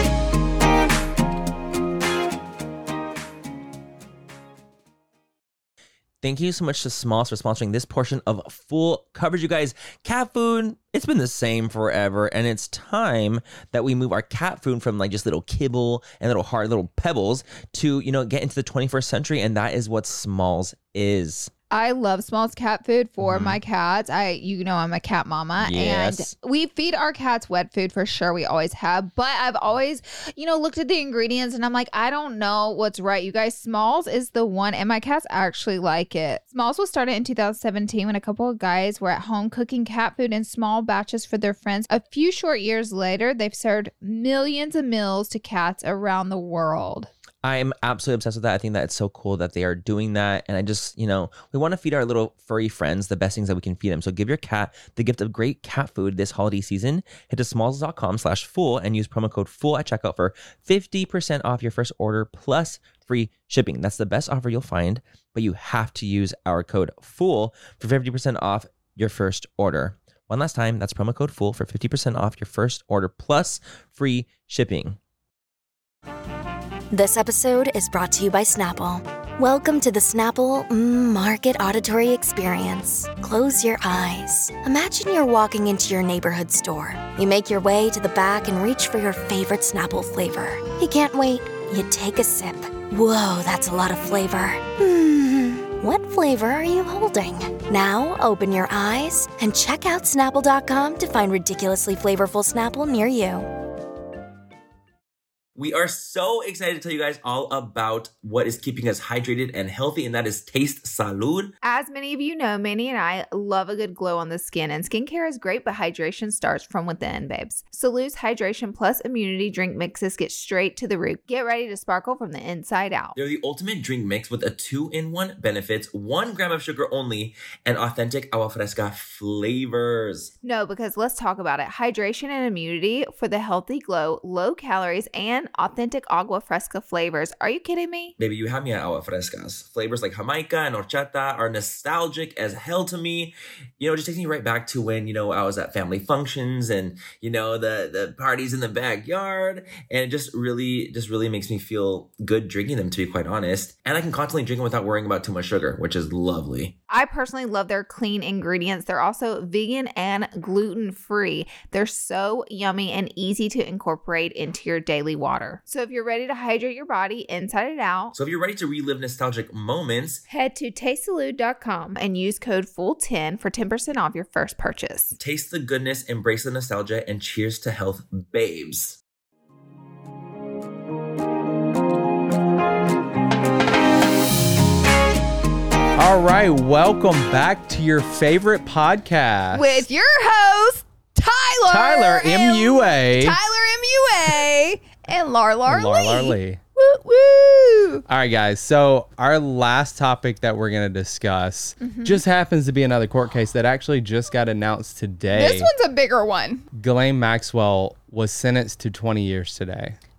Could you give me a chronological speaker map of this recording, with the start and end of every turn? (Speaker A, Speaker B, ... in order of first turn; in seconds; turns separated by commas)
Speaker A: 6.2-21.5, Speaker B: 21.7-47.1, Speaker C: 23.2-23.6, Speaker A: 25.6-26.3, Speaker A: 47.4-75.0, Speaker D: 76.9-103.5, Speaker A: 105.6-111.5, Speaker E: 111.6-123.2, Speaker A: 123.2-130.3, Speaker E: 130.4-138.1, Speaker A: 138.2-156.8, Speaker E: 156.9-168.1, Speaker A: 168.1-170.2, Speaker E: 170.3-175.1, Speaker A: 175.2-179.0, Speaker C: 186.0-189.9, Speaker B: 189.5-198.0, Speaker C: 191.7-193.4, Speaker C: 195.7-196.6, Speaker C: 198.1-205.7, Speaker B: 201.8-202.2, Speaker B: 205.3-206.7, Speaker C: 206.7-210.0